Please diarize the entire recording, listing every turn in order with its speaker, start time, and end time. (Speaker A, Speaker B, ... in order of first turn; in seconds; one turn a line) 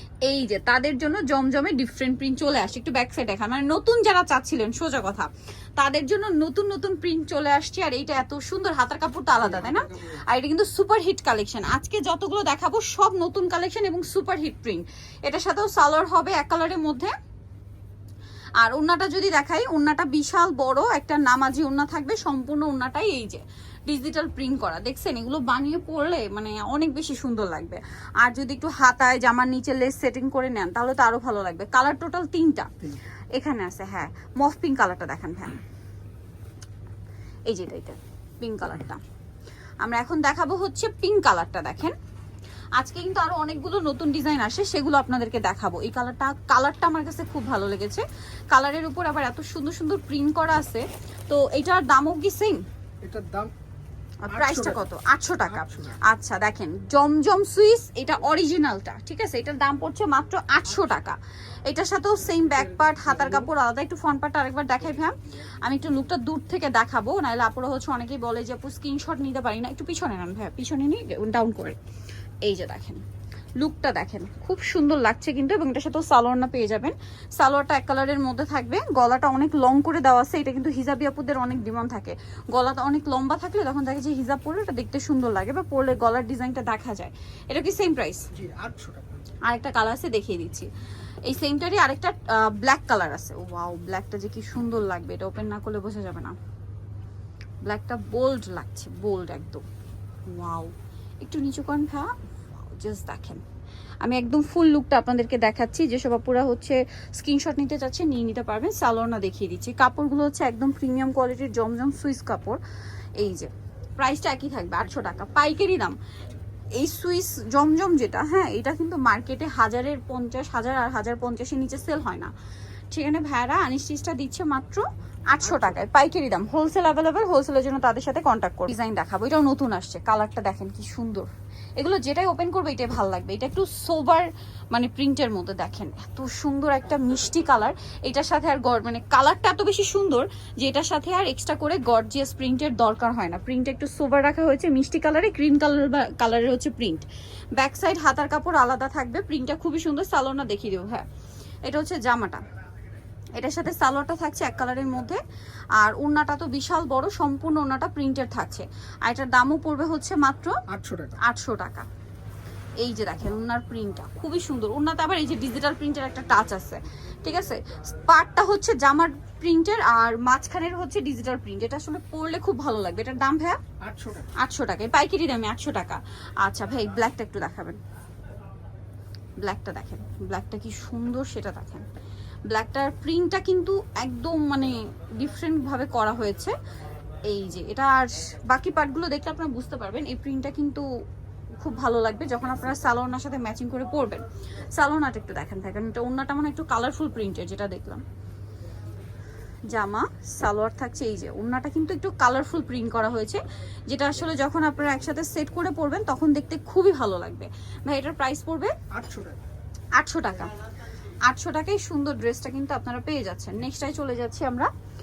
Speaker A: 0.2-17.1
Speaker B: 9.7-10.2
Speaker A: 18.6-32.7
Speaker A: 33.3-35.6
Speaker A: 37.5-39.0
Speaker A: 39.8-42.0
Speaker A: 42.8-52.6
Speaker B: 53.0-53.5
Speaker A: 54.3-71.8
Speaker B: 54.3-54.8
Speaker B: 55.5-56.0
Speaker A: 72.4-73.0
Speaker A: 73.6-88.3
Speaker B: 88.3-89.2
Speaker A: 89.5-90.7
Speaker A: 91.2-96.4
Speaker A: 97.6-99.7
Speaker A: 100.3-103.4
Speaker A: 104.0-112.6
Speaker A: 113.2-116.0
Speaker A: 116.7-122.3
Speaker A: 122.9-151.1
Speaker A: 151.7-152.4
Speaker A: 153.3-155.2
Speaker A: 155.8-160.6
Speaker B: 160.7-161.2
Speaker A: 161.2-161.9
Speaker A: 162.8-173.6
Speaker B: 173.8-174.3
Speaker A: 174.4-177.8
Speaker A: 179.4-181.9
Speaker A: 182.5-186.6
Speaker A: 187.3-190.9
Speaker A: 191.6-198.0
Speaker A: 199.7-208.7
Speaker B: 208.9-209.4
Speaker A: 210.0-210.6
Speaker A: 211.3-214.7